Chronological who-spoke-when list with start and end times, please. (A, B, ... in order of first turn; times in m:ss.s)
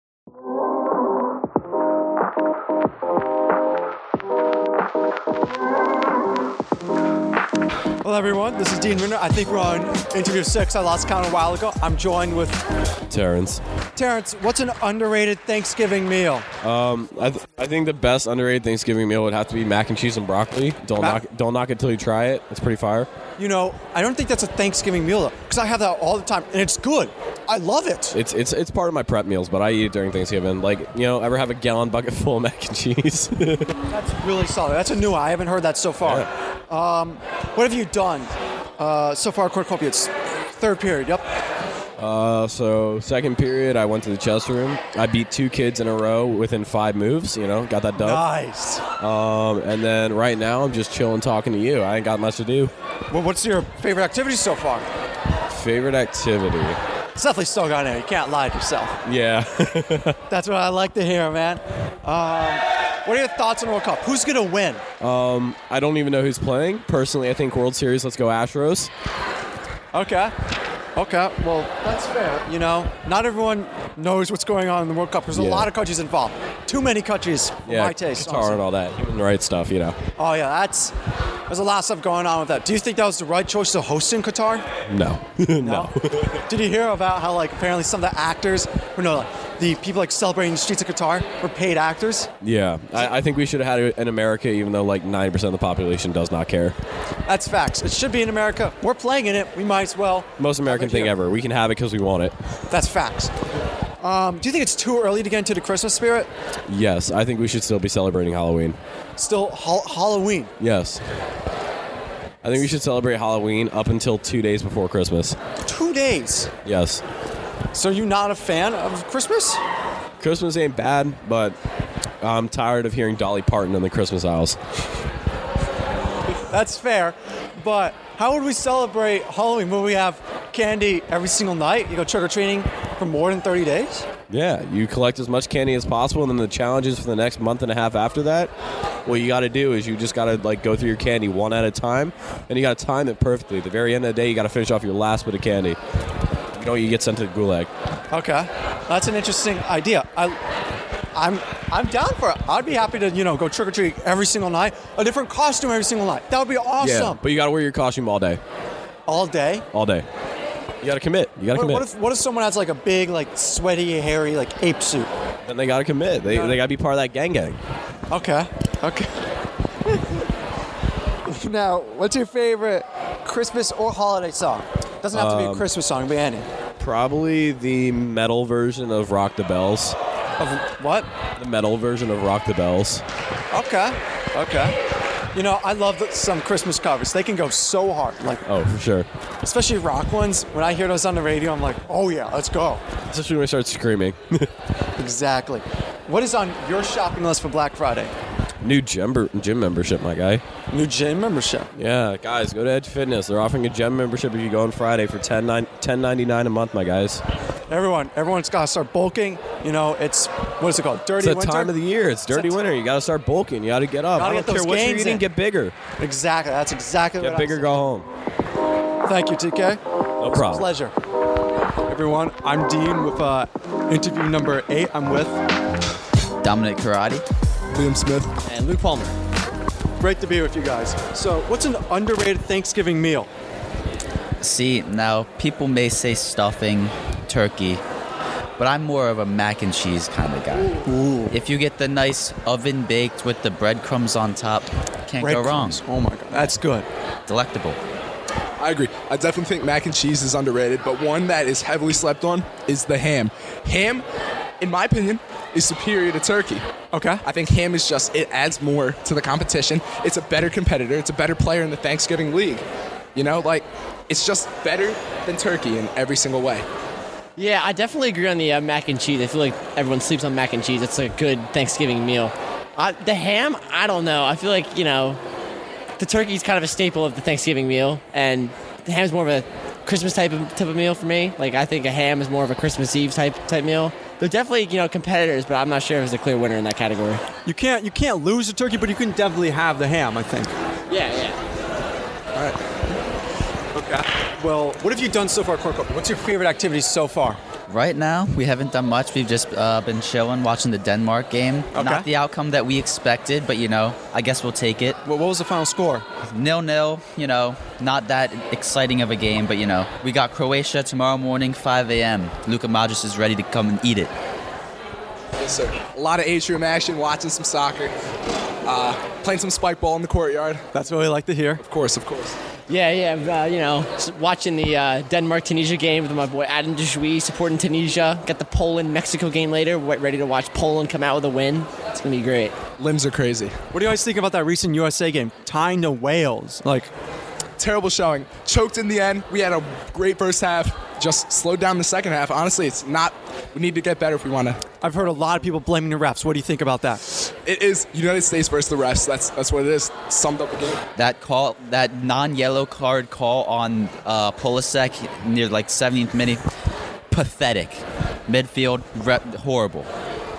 0:08.0-0:12.6 A
0:13.1-0:13.6 B
0:13.9-0:16.5 A
0:16.6-0:23.1 B
0:21.0-0:21.2 A
0:23.4-0:28.2 A
0:28.1-0:33.7 B
0:33.9-0:41.3 A
0:36.0-0:36.3 B
0:42.0-0:48.2 B
0:48.0-0:48.8 A
0:49.0-0:52.7 B
0:53.1-0:54.9 A
0:55.5-0:56.8 B
0:57.1-0:59.0 A
0:59.0-1:00.2 B
1:00.3-1:04.8 A
1:05.0-1:08.9 B
1:09.9-1:10.3 A
1:11.0-1:18.6 A
1:15.3-1:15.7 B
1:17.6-1:20.0 B
1:20.2-1:20.9 A
1:21.5-1:24.6 A
1:24.9-1:26.4 B
1:25.6-1:25.9 A
1:26.5-1:32.3 A
1:32.4-1:36.8 B
1:37.3-1:41.1 A
1:40.4-1:42.4 B
1:42.7-1:43.3 A
1:44.0-1:46.3 A
1:46.7-1:48.8 B
1:49.2-1:50.5 A
1:50.6-1:51.0 B
1:52.4-1:55.4 B
1:55.6-1:56.5 A
1:56.6-1:57.0 B
1:57.7-1:59.6 A
2:00.2-2:01.6 B
2:02.2-2:04.6 B
2:06.5-2:14.1 A
2:14.3-2:18.5 B
2:19.0-2:25.8 B
2:26.5-2:27.7 B
2:28.1-2:30.4 A
2:31.1-2:37.2 A
2:36.8-2:38.4 B
2:39.1-2:39.7 A
2:39.7-2:40.0 B
2:40.8-2:41.8 B
2:41.5-2:45.1 A
2:45.4-2:47.6 B
2:46.2-2:46.6 A
2:48.1-2:49.1 A
2:51.2-2:56.5 A
2:55.1-2:55.7 B
2:56.8-3:00.0 B
3:00.4-3:01.1 A
3:01.4-3:03.0 B
3:03.5-3:04.8 A
3:05.3-3:08.4 A
3:08.4-3:09.1 B
3:09.4-3:12.8 A
3:13.1-3:14.5 B
3:15.0-3:18.1 A
3:18.6-3:20.4 B
3:20.7-3:21.7 A
3:21.8-3:27.2 B
3:27.7-3:31.8 A
3:31.2-3:35.7 B
3:32.3-3:32.6 A
3:34.2-3:35.3 A
3:36.0-3:37.8 A
3:37.2-3:38.1 B
3:39.0-3:39.8 A
3:40.2-3:40.7 B
3:40.3-3:40.9 A
3:41.9-3:45.4 A
3:46.4-3:47.2 C
3:47.7-3:48.3 D
3:48.5-3:49.1 E
3:50.0-3:53.3 A
3:54.4-3:57.8 C
3:58.6-4:00.7 C
4:00.8-4:01.3 A
4:01.3-4:05.8 C
4:05.2-4:06.9 A
4:07.3-4:07.8 C
4:08.6-4:14.0 D
4:14.6-4:16.6 D
4:16.9-4:17.2 A
4:17.2-4:22.6 D
4:23.1-4:26.6 D
4:27.4-4:35.2 E
4:36.0-4:47.3 E
4:47.4-4:50.5 A
4:50.9-4:51.4 E
4:53.7-4:57.4 A
4:57.7-5:05.0 C
5:01.7-5:02.1 A
5:05.0-5:06.0 A
5:06.3-5:14.1 C
5:15.4-5:17.9 D
5:18.6-5:20.7 D
5:20.7-5:21.6 A
5:21.6-5:22.3 D
5:22.7-5:32.6 E
5:32.8-5:33.6 D
5:33.7-5:36.9 A
5:37.6-5:44.6 D
5:44.8-5:47.0 A
5:47.3-5:50.8 D
5:51.0-5:56.4 C
5:57.1-5:59.9 C